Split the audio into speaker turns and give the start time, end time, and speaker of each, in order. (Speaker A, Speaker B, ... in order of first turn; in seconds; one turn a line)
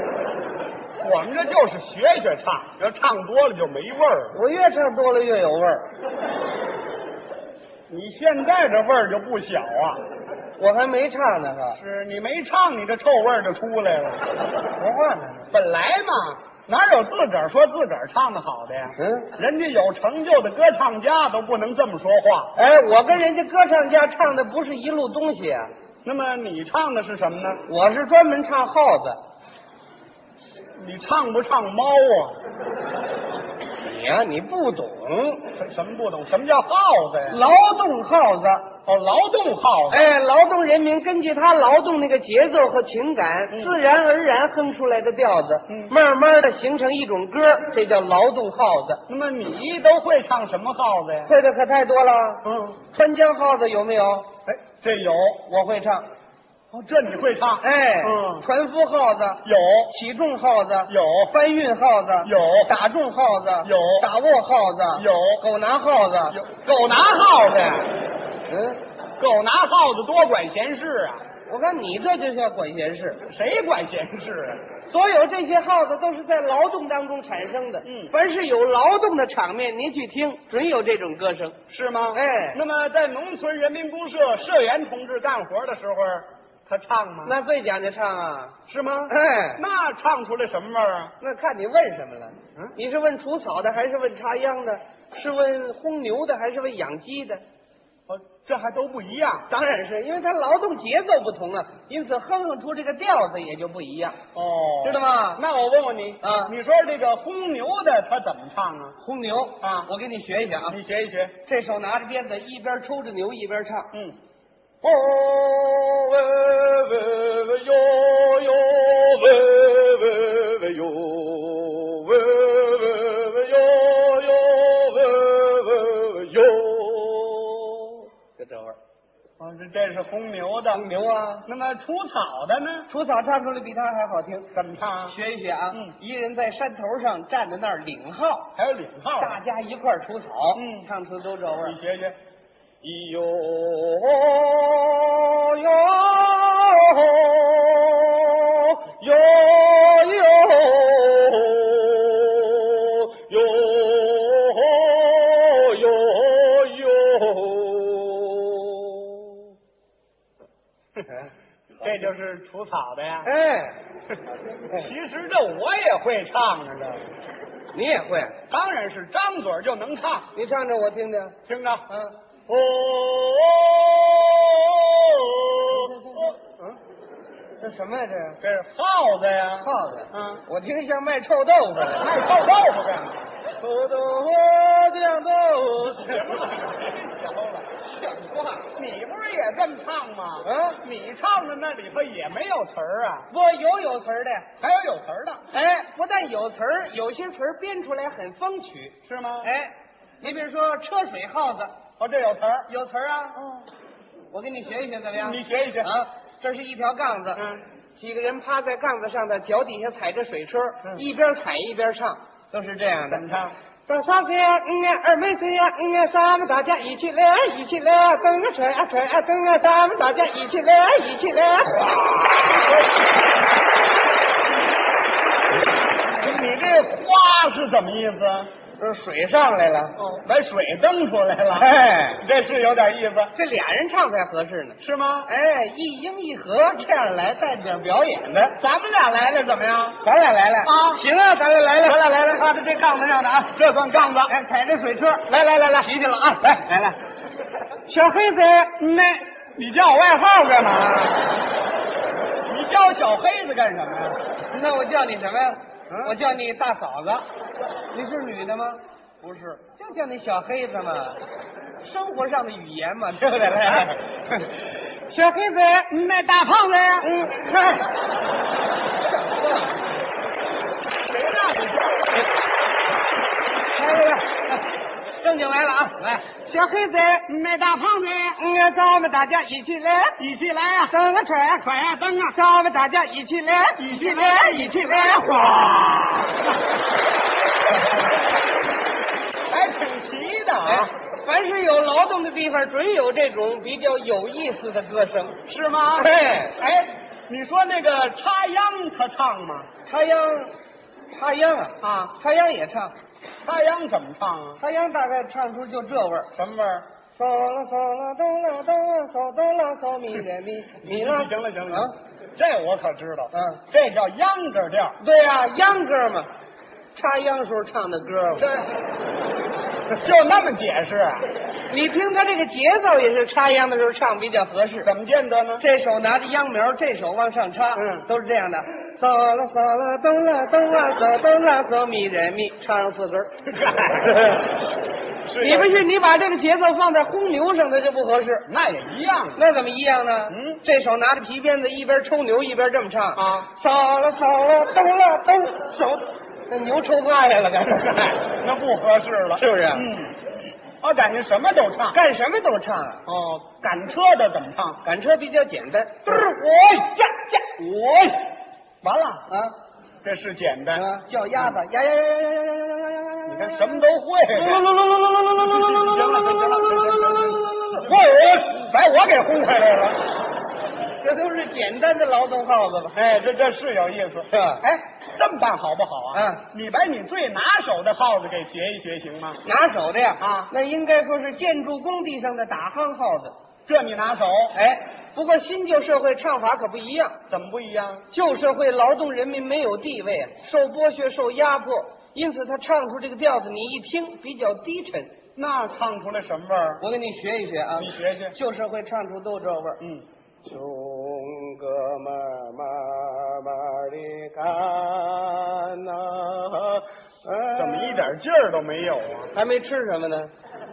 Speaker A: 1.0-4.3
Speaker B: 4.3-5.9
Speaker A: 7.9-10.0
Speaker B: 10.6-11.8
Speaker A: 11.7-14.2
Speaker B: 14.7-15.5
Speaker A: 15.5-22.5
Speaker B: 19.0-19.3
Speaker B: 22.5-25.7
Speaker A: 26.0-27.6
Speaker B: 27.7-29.2
Speaker A: 30.8-32.4
Speaker B: 33.8-35.4
Speaker A: 35.5-37.4
Speaker B: 37.3-38.7
Speaker A: 38.9-40.1
Speaker B: 39.9-49.0
Speaker A: 43.5-43.7
Speaker A: 45.7-45.9
Speaker A: 49.1-51.3
Speaker B: 51.2-54.3
Speaker A: 52.4-52.8
Speaker A: 54.5-55.4
Speaker B: 55.5-56.0
Speaker A: 56.7-58.4
Speaker B: 57.6-66.4
Speaker A: 59.4-59.9
Speaker A: 60.9-61.3
Speaker A: 62.2-62.7
Speaker A: 63.6-64.1
Speaker A: 64.9-65.4
Speaker A: 66.3-67.9
Speaker B: 68.5-68.8
Speaker A: 69.2-71.2
Speaker B: 71.5-73.2
Speaker A: 73.3-74.6
Speaker B: 74.9-81.6
Speaker A: 77.8-78.1
Speaker A: 81.7-87.3
Speaker B: 82.1-82.6
Speaker B: 87.2-88.6
Speaker A: 88.7-91.1
Speaker B: 89.1-89.6
Speaker B: 91.2-97.4
Speaker A: 98.1-99.5
Speaker B: 99.5-104.2
Speaker A: 104.3-109.0
Speaker B: 104.8-105.4
Speaker B: 106.2-106.5
Speaker B: 109.0-110.8
Speaker A: 109.6-109.9
Speaker A: 110.7-111.3
Speaker B: 111.4-113.9
Speaker B: 114.8-128.8
Speaker A: 129.4-130.8
Speaker B: 130.7-131.4
Speaker A: 131.4-132.9
Speaker B: 132.9-134.5
Speaker A: 134.5-135.2
Speaker B: 135.1-138.5
Speaker A: 138.6-139.4
Speaker B: 139.2-141.8
Speaker A: 140.5-140.8
Speaker A: 141.6-142.2
Speaker B: 142.8-159.4
Speaker A: 161.8-163.3
Speaker B: 163.2-163.8
Speaker A: 164.7-167.0
Speaker B: 167.7-168.3
Speaker A: 168.5-170.3
Speaker B: 170.3-171.3
Speaker A: 171.4-171.8
Speaker B: 171.9-172.1
Speaker A: 172.5-176.7
Speaker B: 175.7-176.4
Speaker B: 177.6-178.4
Speaker A: 178.4-180.4
Speaker B: 179.6-182.2
Speaker A: 181.9-183.3
Speaker B: 183.6-186.5
Speaker A: 185.9-187.7
Speaker B: 187.8-188.7
Speaker A: 188.7-193.3
Speaker B: 190.4-190.8
Speaker B: 193.3-194.5
Speaker A: 194.6-195.4
Speaker B: 195.5-201.7
Speaker A: 199.0-199.5
Speaker A: 202.0-202.7
Speaker B: 202.7-203.6
Speaker B: 204.3-207.4
Speaker A: 205.2-205.9
Speaker A: 207.3-207.6
Speaker B: 207.9-213.2
Speaker A: 213.1-213.5
Speaker B: 213.9-222.0
Speaker A: 221.8-222.9
Speaker A: 226.1-228.5
Speaker B: 228.8-230.0
Speaker A: 229.9-233.3
Speaker B: 231.5-232.2
Speaker B: 233.3-238.6
Speaker A: 234.8-235.3
Speaker A: 238.6-240.0
Speaker B: 239.9-243.6
Speaker A: 240.6-241.0
Speaker A: 241.8-242.4
Speaker A: 243.5-244.3
Speaker B: 244.2-247.0
Speaker B: 247.9-248.8
Speaker A: 248.8-251.3
Speaker A: 252.4-254.2
Speaker B: 254.5-257.2
Speaker B: 257.9-261.2
Speaker B: 261.8-265.9
Speaker A: 265.9-267.1
Speaker B: 267.0-267.9
Speaker B: 269.3-269.8
Speaker A: 271.0-272.3
Speaker B: 273.7-277.3
Speaker A: 277.2-278.4
Speaker B: 278.4-280.2
Speaker A: 280.2-280.9
Speaker B: 280.9-285.8
Speaker A: 283.8-286.4
Speaker A: 289.5-290.9
Speaker B: 290.6-295.4
Speaker A: 295.4-296.7
Speaker B: 295.9-296.9
Speaker A: 297.3-299.7
Speaker B: 299.8-300.5
Speaker B: 301.1-302.9
Speaker A: 301.8-302.1
Speaker A: 303.4-304.6
Speaker B: 304.6-306.3
Speaker A: 306.3-306.9
Speaker B: 307.1-311.9
Speaker A: 310.8-315.0
Speaker B: 313.3-313.6
Speaker B: 315.0-316.3
Speaker B: 316.9-318.5
Speaker A: 319.9-321.3
Speaker B: 321.7-324.9
Speaker A: 324.8-325.6
Speaker B: 325.6-333.3
Speaker A: 327.7-328.1
Speaker A: 333.4-334.4
Speaker B: 334.1-334.5
Speaker A: 335.3-335.8
Speaker B: 335.3-338.5
Speaker A: 338.5-339.4
Speaker B: 339.4-348.2
Speaker A: 340.3-340.6
Speaker A: 343.1-343.5
Speaker A: 348.0-350.2
Speaker B: 349.4-349.9
Speaker A: 350.8-352.0
Speaker B: 351.9-353.0
Speaker A: 353.1-354.8
Speaker B: 354.8-356.2
Speaker A: 356.0-358.3
Speaker A: 358.8-359.2
Speaker B: 359.3-359.6
Speaker A: 360.0-360.8
Speaker B: 360.7-368.1
Speaker A: 363.3-364.6
Speaker A: 365.3-370.1
Speaker B: 371.0-373.0
Speaker A: 372.9-374.3
Speaker B: 374.3-374.8
Speaker A: 375.1-379.4
Speaker B: 376.1-376.4
Speaker B: 379.4-383.3
Speaker A: 380.2-380.5
Speaker A: 383.7-384.6
Speaker B: 384.5-387.2
Speaker A: 387.3-388.1
Speaker B: 388.1-395.1
Speaker A: 395.4-396.8
Speaker B: 396.8-399.8
Speaker A: 397.8-398.4
Speaker B: 400.4-408.1
Speaker A: 407.5-409.3
Speaker B: 409.3-410.3